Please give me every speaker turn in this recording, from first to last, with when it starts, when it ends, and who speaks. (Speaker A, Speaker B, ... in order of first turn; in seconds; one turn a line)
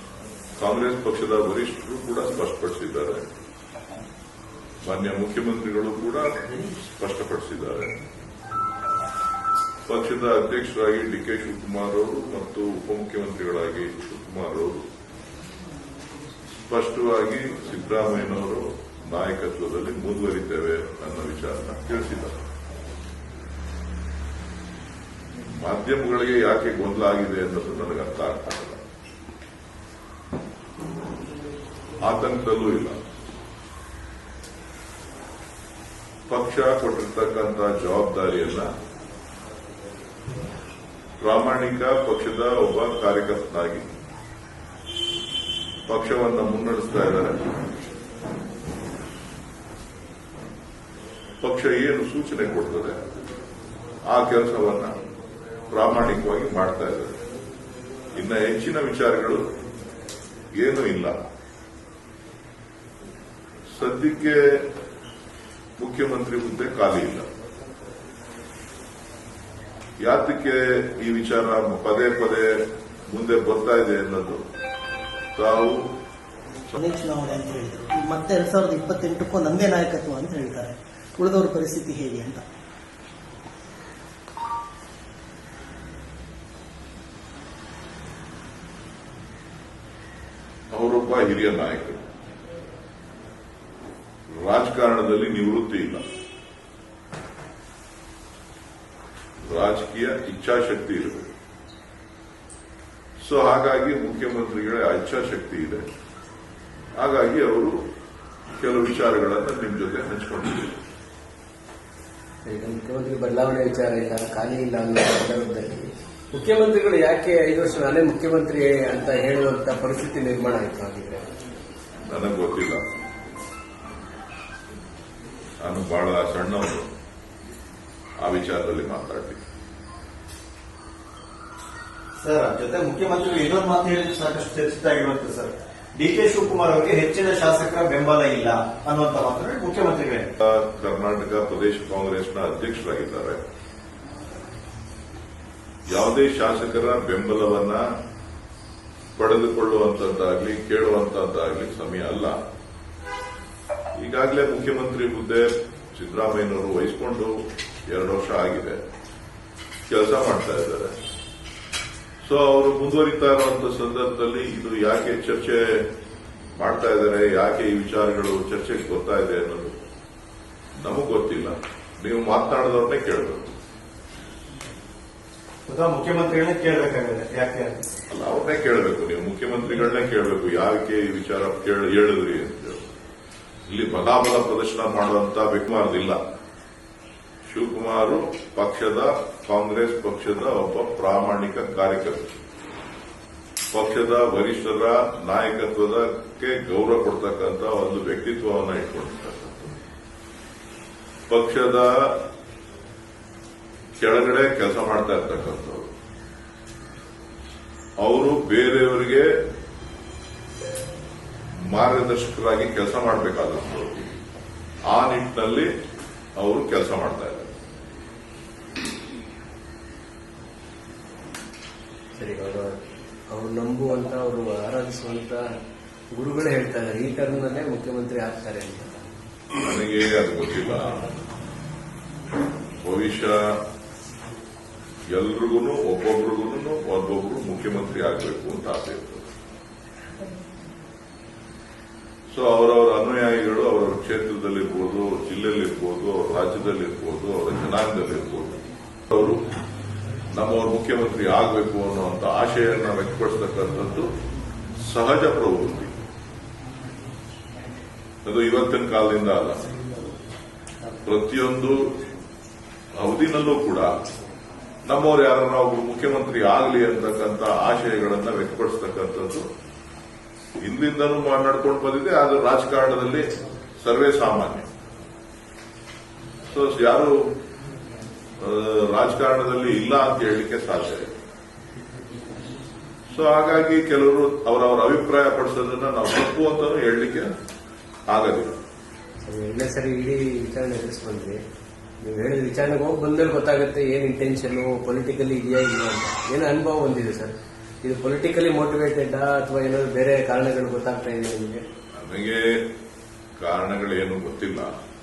Speaker A: 0.6-3.2
Speaker A: 4.8-7.9
Speaker A: 9.9-14.8
Speaker A: 16.6-22.4
Speaker A: 25.5-28.8
Speaker A: 32.0-33.0
Speaker A: 36.3-38.7
Speaker A: 41.2-43.8
Speaker A: 45.9-47.5
Speaker A: 51.4-53.0
Speaker A: 54.1-54.9
Speaker A: 55.7-57.2
Speaker A: 58.1-59.4
Speaker A: 60.6-61.1
Speaker A: 63.8-64.6
Speaker A: 65.8-67.3
Speaker A: 70.0-74.4
Speaker A: 75.3-75.9
Speaker A: 76.7-77.0
Speaker B: 76.8-82.4
Speaker A: 90.7-92.0
Speaker A: 94.3-96.0
Speaker A: 99.5-101.3
Speaker A: 103.2-105.9
Speaker A: 107.0-107.8
Speaker A: 108.5-110.7
Speaker C: 112.5-121.3
Speaker A: 122.1-122.8
Speaker A: 125.6-126.9
Speaker A: 128.2-129.4
Speaker D: 132.2-140.3
Speaker A: 140.4-143.4
Speaker A: 145.9-147.8
Speaker A: 149.2-152.4
Speaker A: 154.0-157.3
Speaker A: 157.9-158.8
Speaker A: 159.9-161.0
Speaker A: 162.2-165.8
Speaker A: 166.6-169.8
Speaker A: 170.8-173.4
Speaker D: 175.7-177.8
Speaker A: 178.1-182.9
Speaker A: 183.7-186.2
Speaker A: 187.5-192.4
Speaker A: 193.7-199.8
Speaker A: 201.3-202.2
Speaker A: 204.0-205.9
Speaker A: 208.0-209.3
Speaker A: 211.5-214.1
Speaker A: 214.9-215.7
Speaker A: 216.4-217.5
Speaker C: 222.2-222.8
Speaker C: 223.3-225.4
Speaker C: 226.1-229.1
Speaker A: 229.6-231.0
Speaker A: 232.8-233.4
Speaker A: 235.1-239.3
Speaker A: 242.3-249.4
Speaker A: 250.3-254.1
Speaker A: 254.8-255.9
Speaker A: 258.2-259.8
Speaker A: 261.0-261.9
Speaker A: 263.0-263.9
Speaker A: 264.9-269.5
Speaker A: 270.6-273.3
Speaker A: 273.8-274.7
Speaker A: 276.5-277.2
Speaker A: 278.4-281.1
Speaker A: 283.1-287.3
Speaker A: 288.1-288.5
Speaker C: 289.2-291.4
Speaker C: 292.0-301.6
Speaker A: 301.9-302.6
Speaker A: 303.4-304.7